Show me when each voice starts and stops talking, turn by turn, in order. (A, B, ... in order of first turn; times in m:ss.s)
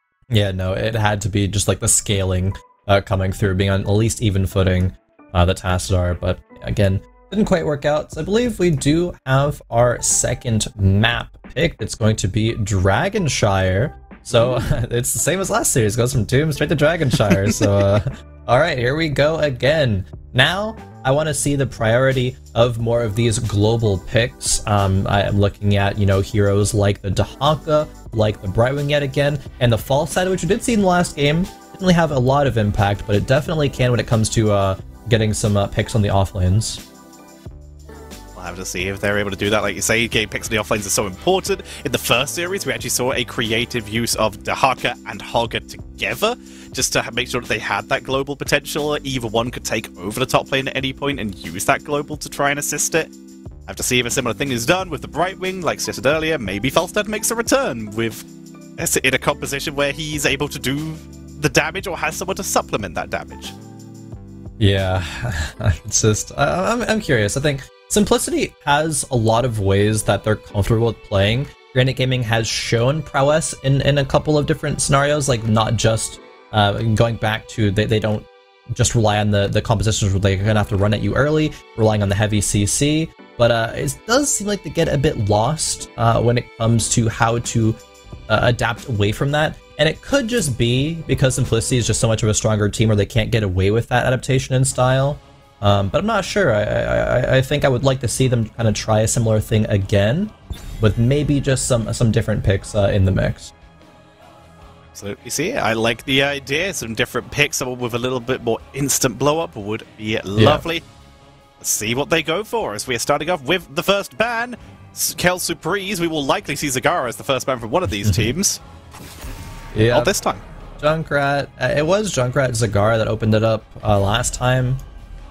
0:00.3-0:36.8 A
0:14.4-0:14.7 B
0:17.3-0:17.6 B
0:38.4-0:53.1 B
0:53.7-0:58.3 B
0:58.8-1:03.6 B
1:04.6-1:43.5 A
1:45.0-1:50.8 B
1:50.4-1:50.6 A
1:51.6-1:58.6 B
1:58.0-1:58.3 A
1:59.7-2:00.1 A
1:59.9-2:00.4 B
2:00.8-2:04.8 A